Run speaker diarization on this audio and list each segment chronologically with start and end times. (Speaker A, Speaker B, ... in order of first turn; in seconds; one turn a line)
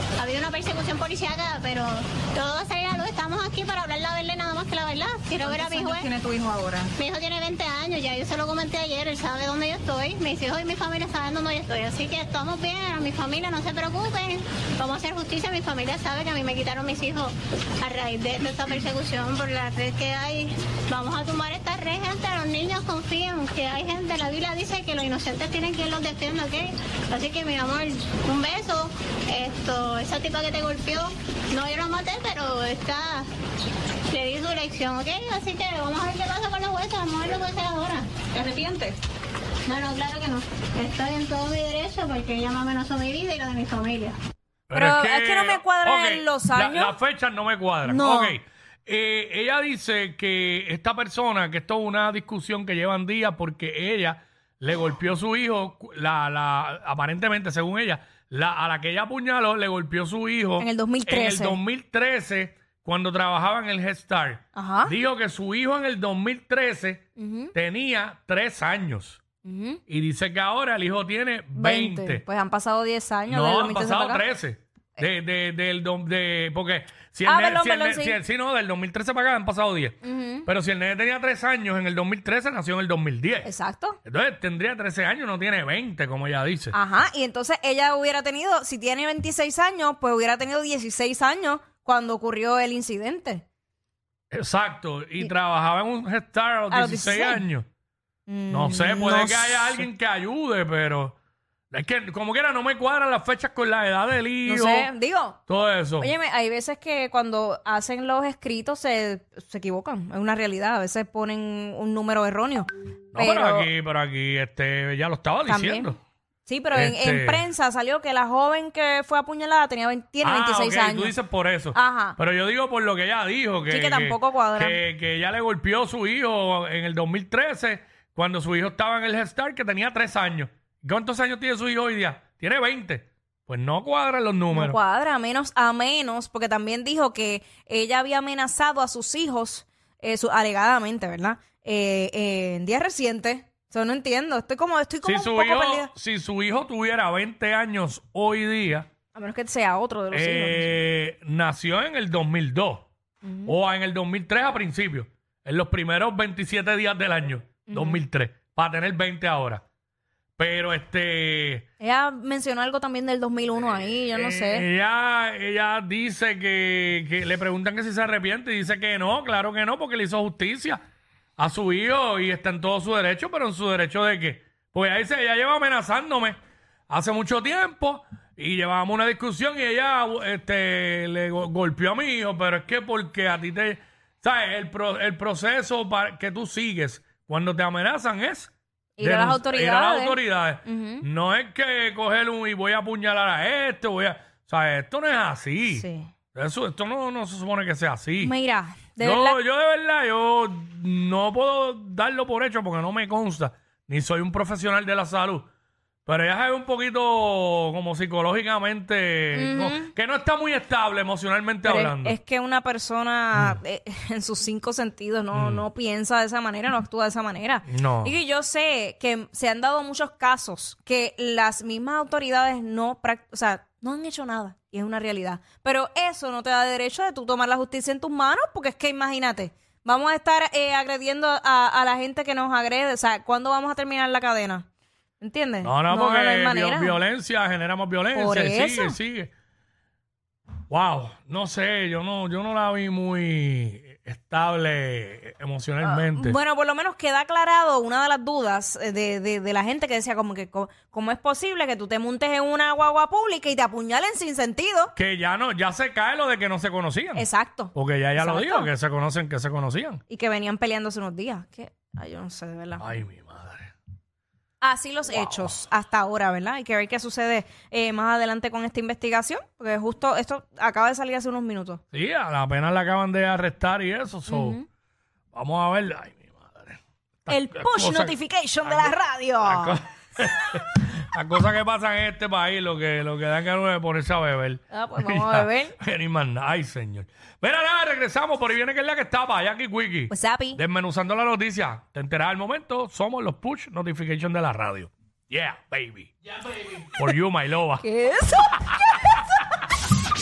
Speaker A: 0.2-6.1
Speaker B: 5.4-6.9
Speaker A: 7.0-33.3
Speaker A: 34.1-38.2
Speaker B: 38.3-39.0
Speaker A: 39.7-44.2
Speaker C: 44.7-69.2
Speaker D: 44.7-47.0
Speaker D: 47.9-48.4
Speaker D: 60.6-61.6
Speaker D: 64.5-64.9
Speaker D: 67.2-67.5
Speaker D: 69.4-69.8
Speaker C: 69.9-72.2
Speaker D: 71.5-74.2
Speaker C: 73.3-83.5
Speaker D: 77.2-78.2
Speaker D: 80.0-80.5
Speaker D: 83.4-84.0
Speaker C: 84.0-86.8
Speaker D: 86.7-93.5
Speaker C: 94.3-97.7
Speaker D: 96.7-97.5
Speaker D: 98.3-99.9
Speaker C: 98.5-101.2
Speaker C: 101.7-104.9
Speaker D: 104.5-105.4
Speaker C: 105.5-106.1
Speaker D: 106.0-113.7
Speaker C: 113.1-116.0
Speaker D: 115.5-115.9
Speaker D: 116.5-121.2
Speaker C: 116.7-117.5
Speaker C: 120.2-134.8
Speaker D: 121.7-122.2
Speaker D: 123.7-124.8
Speaker D: 134.5-145.9
Speaker C: 145.0-148.9
Speaker D: 149.1-150.8
Speaker C: 150.1-152.9
Speaker D: 153.2-153.6
Speaker C: 153.5-159.6
Speaker D: 157.7-158.0
Speaker C: 160.4-161.7
Speaker D: 161.8-164.7
Speaker C: 163.6-170.8
Speaker C: 171.4-176.4
Speaker C: 176.9-198.3
Speaker D: 189.0-191.0
Speaker D: 195.7-196.1
Speaker D: 198.2-199.4
Speaker C: 199.0-205.5
Speaker C: 206.1-212.2
Speaker D: 209.3-209.9
Speaker D: 211.6-234.7
Speaker C: 213.3-213.6
Speaker C: 215.3-215.7
Speaker C: 217.7-218.2
Speaker D: 235.2-237.0
Speaker C: 235.6-239.3
Speaker D: 238.1-239.0
Speaker C: 240.7-246.4
Speaker D: 245.8-254.9
Speaker C: 254.9-260.0
Speaker D: 257.1-258.7
Speaker D: 260.1-262.8
Speaker C: 262.8-263.7
Speaker D: 264.6-271.8
Speaker C: 265.1-265.6
Speaker C: 271.9-274.6
Speaker D: 274.3-274.6
Speaker C: 275.3-297.8
Speaker D: 277.3-279.8
Speaker D: 284.7-285.8
Speaker D: 290.1-290.6
Speaker D: 297.8-298.7
Speaker C: 298.7-299.2